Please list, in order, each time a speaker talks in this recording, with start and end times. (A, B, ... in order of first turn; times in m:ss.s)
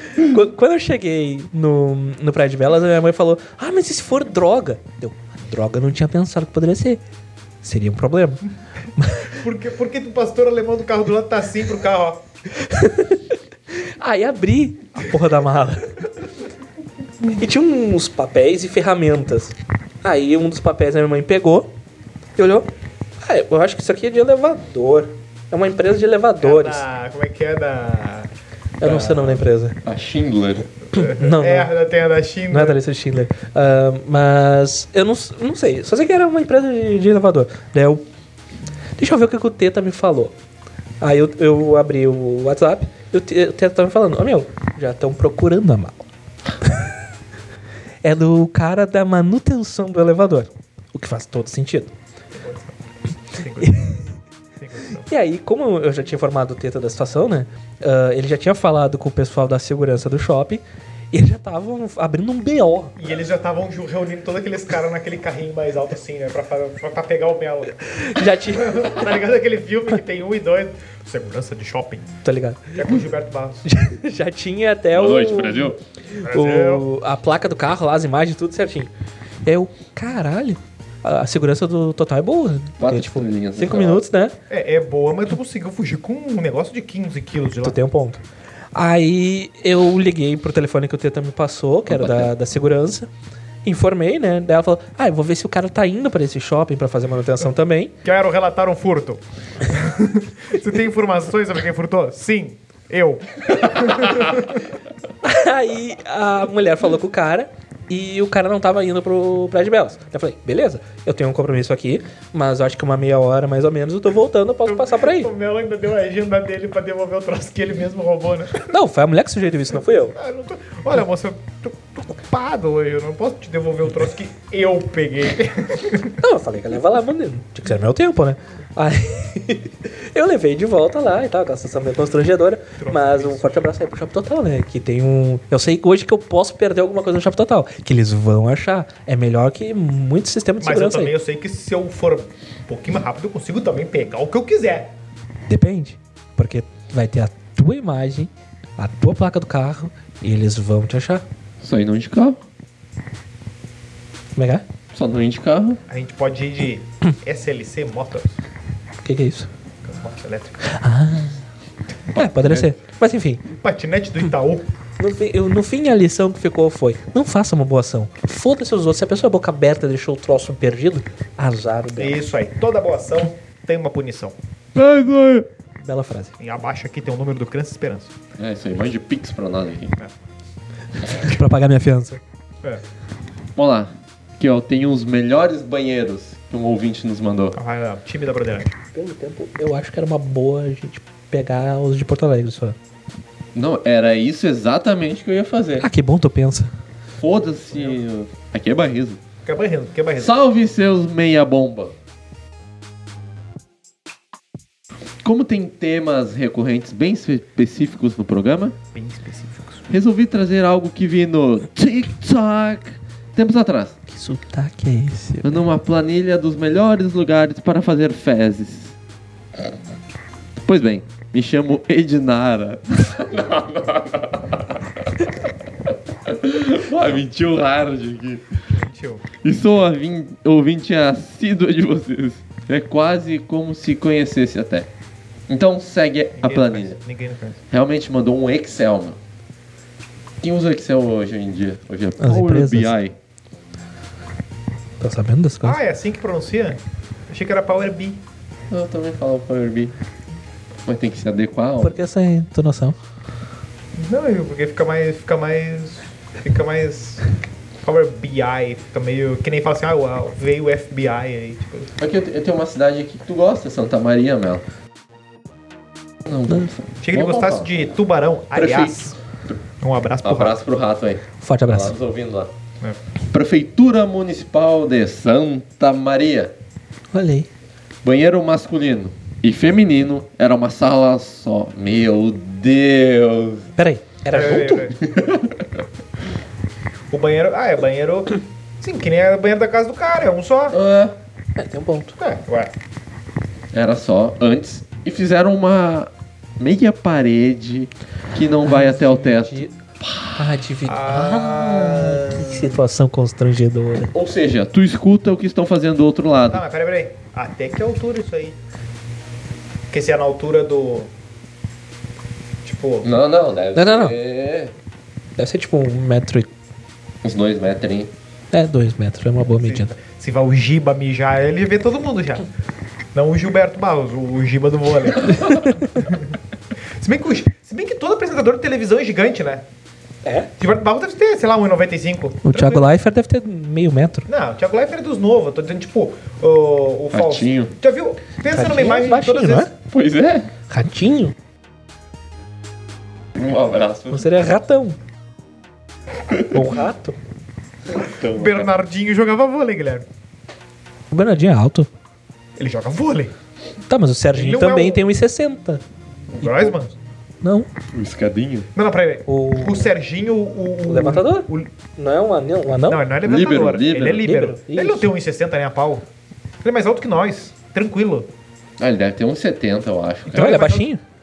0:00.1-0:07.0 A
0:07.6-0:08.4 A
0:09.0-0:09.3 A
0:09.3-0:12.2 B
0:12.6-0:15.9 A
0:17.3-0:21.7 A
0:22.4-0:22.7 A
0:23.2-0:26.8 A
0:26.4-0:28.3 B
0:28.8-0:29.8 A
0:28.9-0:29.3 C
0:29.8-0:30.7 C
0:30.9-0:32.8 B
0:30.9-0:31.7 A
0:32.5-0:38.0 A
0:39.0-0:40.3 A
0:41.0-0:46.1 A
0:48.0-0:51.9 A
0:52.3-0:52.8 B
0:53.3-0:54.0 B
0:53.6-0:54.0 A
0:54.6-0:55.1 B
0:55.1-1:03.0 A
1:03.0-1:07.8 B
1:07.8-1:09.0 A
1:08.5-1:12.1 B
1:12.2-1:13.0 A
1:12.8-1:13.7 B
1:13.6-1:18.9 A
1:14.9-1:15.8 C
1:16.2-1:16.9 B
1:19.4-1:24.4 A
1:22.8-1:24.0 C
1:24.5-1:27.8 B
1:27.6-1:28.2 A
1:28.8-1:33.1 A
1:31.9-1:32.3 C
1:33.6-1:37.9 A
1:38.0-1:44.6 B
1:45.2-1:55.3 A
1:54.7-1:58.7 B
1:58.7-2:00.2 A
2:00.2-2:06.2 B
2:06.2-2:21.1 A
2:12.8-2:13.7 B
2:20.6-2:24.9 B
2:25.5-2:31.2 A
2:31.6-2:32.4 C
2:34.4-2:34.6 A
2:34.9-2:35.8 C
2:35.9-2:38.4 B
2:39.0-2:39.5 A
2:39.8-2:40.6 B
2:40.7-2:41.4 A
2:42.1-2:43.4 A
2:42.2-2:42.7 C
2:43.5-2:44.7 B
2:45.0-2:52.2 A
2:52.0-2:54.4 B
2:54.8-2:55.5 C
2:55.8-2:56.3 A
2:56.4-2:58.2 B
2:58.4-3:00.0 C
3:01.1-3:02.2 A
3:03.6-3:07.6 C
3:07.6-3:08.7 B
3:08.9-3:12.8 A
3:13.5-3:15.9 C
3:15.8-3:16.7 A
3:17.2-3:19.2 C
3:17.7-3:18.0 B
3:19.5-3:20.3 B
3:20.2-3:21.9 C
3:25.2-3:28.8 C
3:28.9-3:29.9 B
3:29.9-3:34.0 C
3:34.1-3:35.6 A
3:35.4-3:39.0 C
3:40.6-3:45.4 C
3:46.2-3:48.5 C
3:48.7-3:49.3 B
3:49.4-3:54.9 C
3:55.5-3:57.0 C
3:56.4-3:57.6 B
3:57.7-3:59.2 C
4:00.4-4:03.2 C
4:02.2-4:02.9 A
4:05.0-4:05.8 A
4:05.6-4:08.2 B
4:08.7-4:09.9 C
4:10.9-4:12.0 C
4:11.8-4:13.0 A
4:14.0-4:17.3 B
4:17.8-4:21.9 B
4:22.0-4:24.6 C
4:26.3-4:28.0 C
4:27.0-4:29.2 B
4:28.6-4:29.6 C
4:29.8-4:30.6 B
4:30.2-4:32.5 C
4:31.4-4:31.9 A
4:33.3-4:36.5 C
4:37.1-4:37.5 A
4:38.0-4:43.7 C
4:43.8-4:44.9 A
4:44.3-4:45.0 B
4:45.0-4:45.8 C
4:47.1-4:50.8 B
4:50.7-4:51.2 C
4:51.6-4:52.1 A
4:52.2-4:52.7 B
4:53.7-5:00.6 C
4:58.6-4:59.7 A
5:00.4-5:04.1 A
5:00.8-5:02.7 B
5:04.1-5:06.6 C
5:06.5-5:08.6 B
5:09.9-5:11.1 B
5:12.6-5:13.1 B
5:13.0-5:14.8 C
5:13.8-5:14.2 A
5:15.4-5:16.5 A
5:17.2-5:18.1 C
5:18.5-5:19.9 A
5:19.4-5:22.4 B
5:23.2-5:26.3 B
5:25.4-5:26.0 A
5:27.0-5:29.6 B
5:30.2-5:30.5 A
5:30.6-5:32.8 B
5:32.4-5:34.3 A
5:34.3-5:39.7 B
5:37.1-5:37.7 C
5:38.5-5:39.7 A
5:39.9-5:40.5 C
5:40.7-5:41.3 A
5:43.4-5:44.3 C
5:44.1-5:45.0 A
5:46.3-5:46.6 C
5:46.5-5:47.2 A
5:47.9-5:48.7 C
5:48.3-5:50.1 B
5:51.1-5:51.9 A
5:52.6-5:53.3 B
5:53.9-5:55.8 A
5:54.3-5:55.0 B
5:56.4-5:57.0 B
5:56.4-5:56.8 A
5:57.4-5:57.7 A
5:57.9-5:58.7 C
5:58.8-6:01.7 B
5:59.3-5:59.9 A
6:00.9-6:03.0 A
6:02.9-6:06.0 B
6:03.2-6:04.3 C
6:04.1-6:05.1 A
6:06.6-6:08.3 B
6:08.8-6:10.5 C
6:10.3-6:10.9 B
6:10.3-6:11.0 A